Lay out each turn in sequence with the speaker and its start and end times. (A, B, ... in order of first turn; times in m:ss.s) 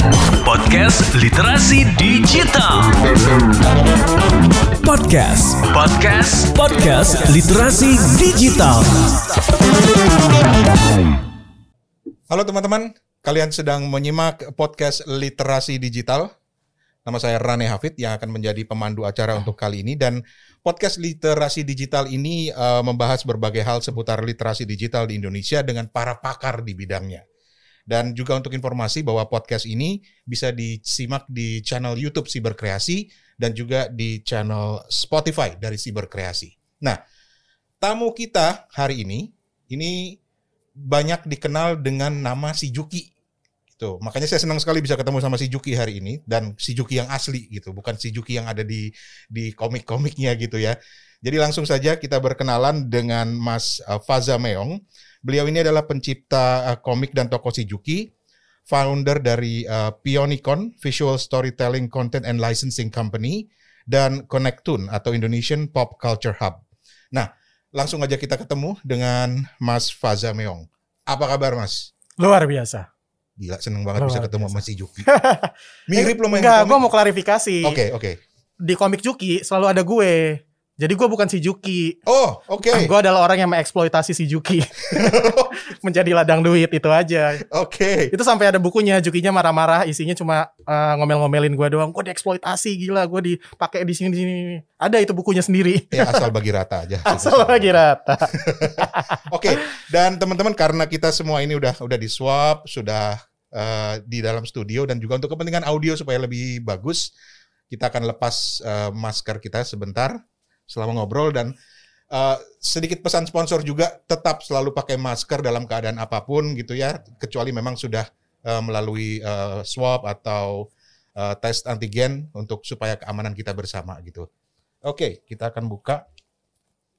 0:00.4-0:03.0 A
0:04.8-0:09.1 A
0:12.3-0:16.3 B
0:17.0-0:27.2 B
0:27.9-0:37.0 B
0:37.8-0:40.2 B
0:40.8-0:43.1 B
0:43.8-0:58.1 B
0:58.7-1:06.6 B
1:07.1-1:11.9 B
1:12.2-1:12.9 C
1:13.4-1:15.1 B
1:14.0-1:17.8 C
1:15.9-1:16.8 B
1:17.6-1:18.2 B
1:18.6-1:22.0 C
1:22.0-1:22.9 B
1:22.7-1:27.4 C
1:24.9-1:25.5 B
1:27.4-1:28.1 B
1:28.1-1:36.2 C
1:35.9-1:37.7 B
1:37.0-1:39.6 C
1:38.3-1:47.1 B
1:47.7-1:51.5 B
1:52.1-2:04.3 B
2:04.8-2:06.0 B